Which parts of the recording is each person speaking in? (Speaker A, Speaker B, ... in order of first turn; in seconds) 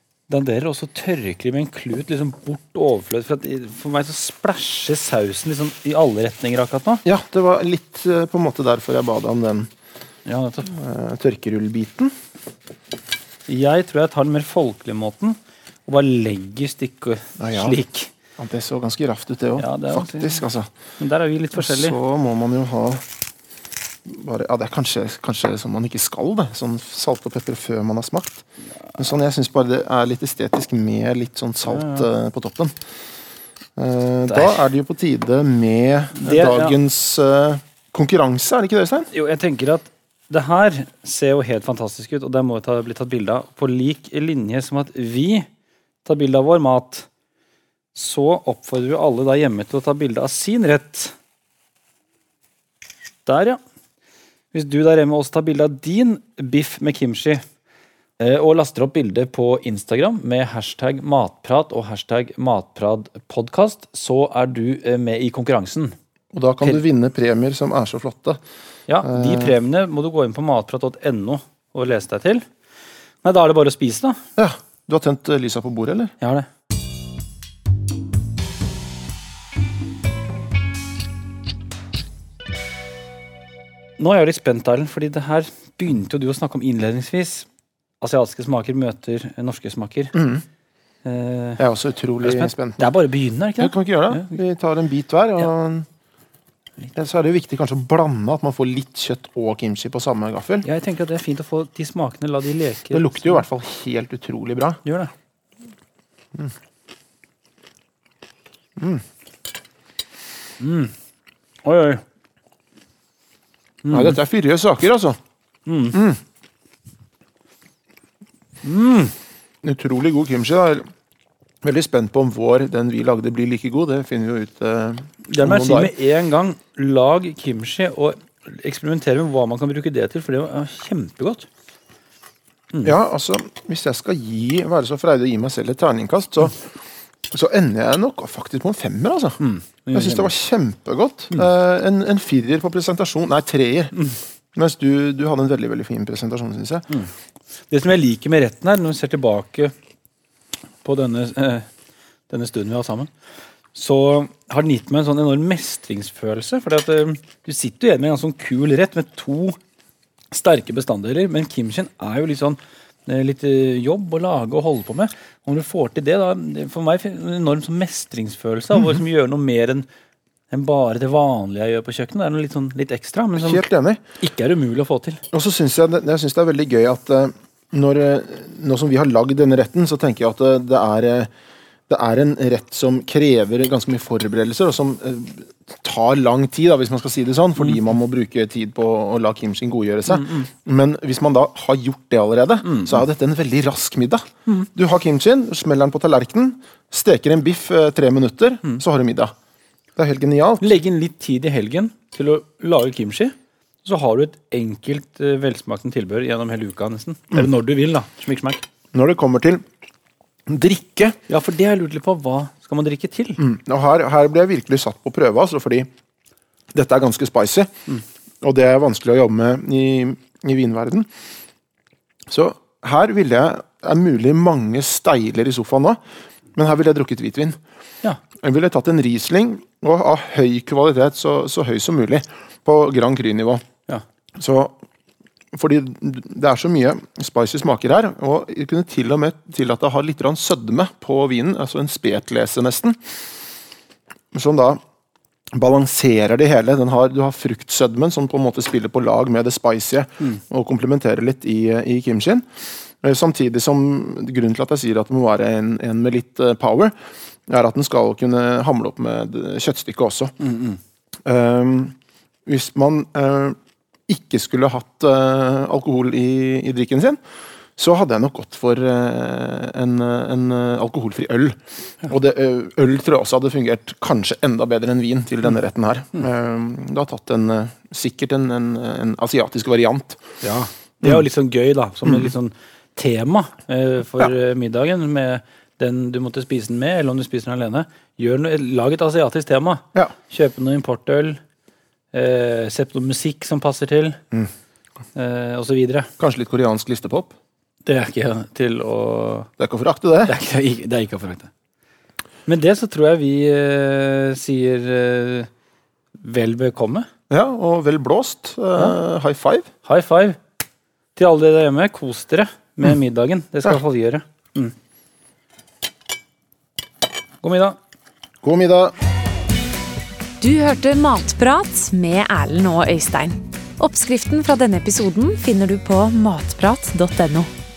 Speaker A: 0.3-7.0, 10.2-10.7, 13.5-18.1, 19.6-20.5, 21.0-22.0, 31.7-32.0, 34.3-34.6, 36.2-36.7, 39.1-45.5, 46.0-47.1, 47.9-51.1, 53.2-53.6, 54.5-57.4, 58.2-65.9, 68.9-72.4, 73.2-74.2, 76.2-76.5, 84.0-87.5, 88.0-90.2, 91.0-91.6, 92.2-94.3, 100.6-103.4, 104.8-105.1, 110.6-110.9, 111.6-112.0, 113.8-114.2, 115.7-116.0, 118.6-119.1, 125.3-131.5, 139.4-140.3, 147.7-149.7, 150.8-151.7, 152.3-153.1, 153.7-159.6, 160.3-169.8, 170.5-173.7, 174.2-175.2, 190.1-190.5, 192.6-193.0, 200.6-208.6, 211.3-213.4, 260.4-260.8, 280.4-291.4, 292.1-294.2, 295.1-296.1, 297.9-299.5, 300.2-301.5, 302.5-305.5, 306.2-307.1, 309.8-310.4, 311.1-314.7, 317.4-317.8
Speaker B: 7.0-9.7, 10.6-12.1, 17.4-17.8, 18.4-20.7, 21.6-23.0, 24.1-28.4, 28.9-32.7, 33.8-39.1, 66.3-68.4, 69.0-69.5, 74.4-76.1, 90.1-90.4, 91.6-92.8, 93.6-95.9, 96.9-100.7, 102.9-104.8, 108.8-109.0, 113.9-115.2, 115.9-116.2, 119.6-120.9, 121.6-125.9, 132.8-136.7, 137.3-139.4, 139.9-143.9, 144.5-146.9, 173.4-174.0, 175.3-181.3, 181.9-199.3, 199.9-200.8, 208.9-209.6, 210.5-211.2, 213.4-215.9, 216.7-217.7, 218.4-221.1, 222.3-226.0, 226.5-227.6, 228.4-233.6, 234.3-234.8, 235.5-243.0, 244.3-244.8, 245.5-252.4, 253.0-256.9, 257.5-260.3, 261.2-261.9, 262.4-263.6, 264.1-267.2, 267.8-280.2, 296.2-297.3, 299.6-300.3, 307.3-309.7, 318.4-318.9
Speaker C: 320.4-327.5